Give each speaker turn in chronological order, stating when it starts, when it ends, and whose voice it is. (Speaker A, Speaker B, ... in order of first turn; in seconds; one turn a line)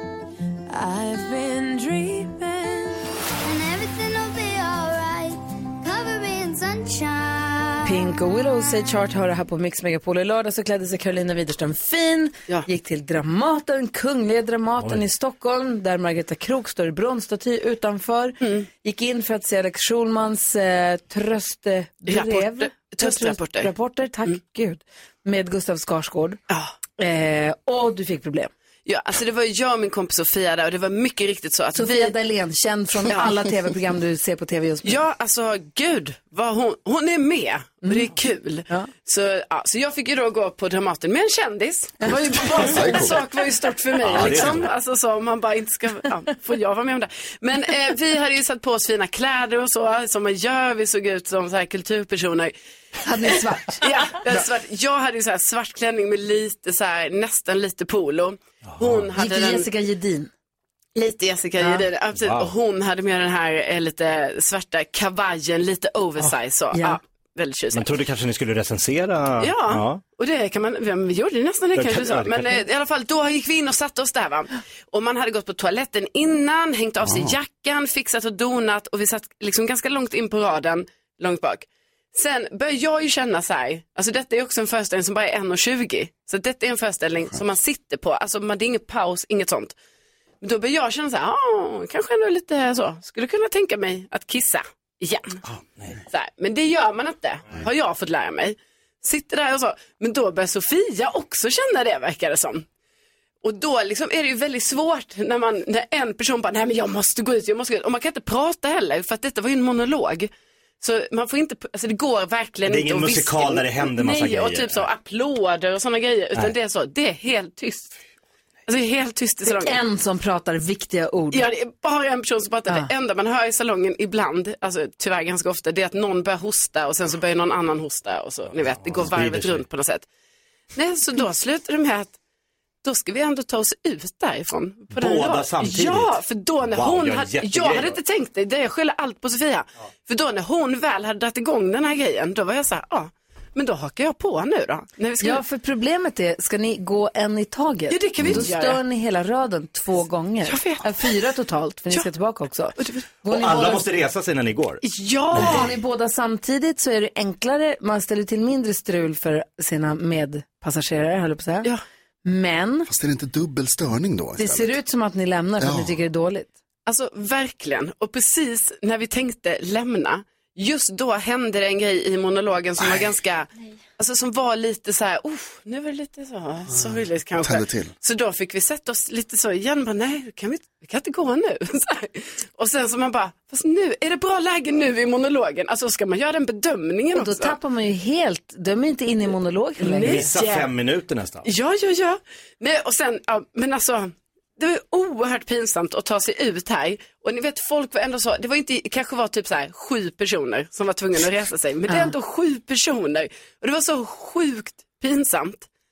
Speaker A: 0.7-2.9
Speaker B: 3.4-7.9
Speaker A: 7.8-26.4
Speaker C: 18.4-18.7
Speaker C: 22.1-23.7
Speaker A: 27.0-28.5
Speaker C: 28.9-32.1
Speaker A: 31.8-35.0
Speaker C: 34.9-52.5
Speaker A: 37.8-38.1
Speaker A: 42.0-42.3
Speaker D: 42.1-43.2
Speaker E: 44.0-44.6
Speaker D: 44.1-44.6
Speaker A: 53.0-53.9
Speaker C: 53.7-59.7
Speaker E: 58.7-59.1
Speaker A: 59.2-60.3
Speaker C: 61.0-67.9
Speaker A: 61.6-61.9
Speaker E: 62.1-62.5
Speaker A: 66.7-67.0
Speaker E: 67.7-70.0
Speaker C: 69.4-89.7
Speaker E: 71.8-72.6
Speaker D: 77.0-77.3
Speaker C: 90.4-95.4
Speaker C: 96.1-102.7
Speaker C: 103.4-110.3
Speaker C: 110.8-117.9
Speaker E: 112.7-114.9
Speaker C: 118.7-119.8
Speaker A: 119.5-121.4
Speaker C: 121.3-130.1
Speaker E: 128.6-129.7
Speaker C: 130.8-132.1
Speaker C: 132.8-145.4
Speaker E: 134.9-136.1
Speaker E: 136.7-138.0
Speaker A: 145.2-153.9
Speaker C: 147.9-148.8
Speaker C: 150.4-151.1
Speaker C: 152.8-153.1
Speaker E: 153.3-154.8
Speaker C: 154.8-155.7
Speaker E: 155.3-155.7
Speaker A: 155.4-161.7
Speaker A: 162.2-162.9
Speaker D: 162.9-164.8
Speaker A: 164.4-166.5
Speaker D: 165.6-166.0
Speaker C: 166.9-187.6
Speaker D: 177.4-177.9
Speaker A: 187.1-190.2
Speaker C: 189.8-190.7
Speaker E: 189.9-191.5
Speaker C: 191.4-205.7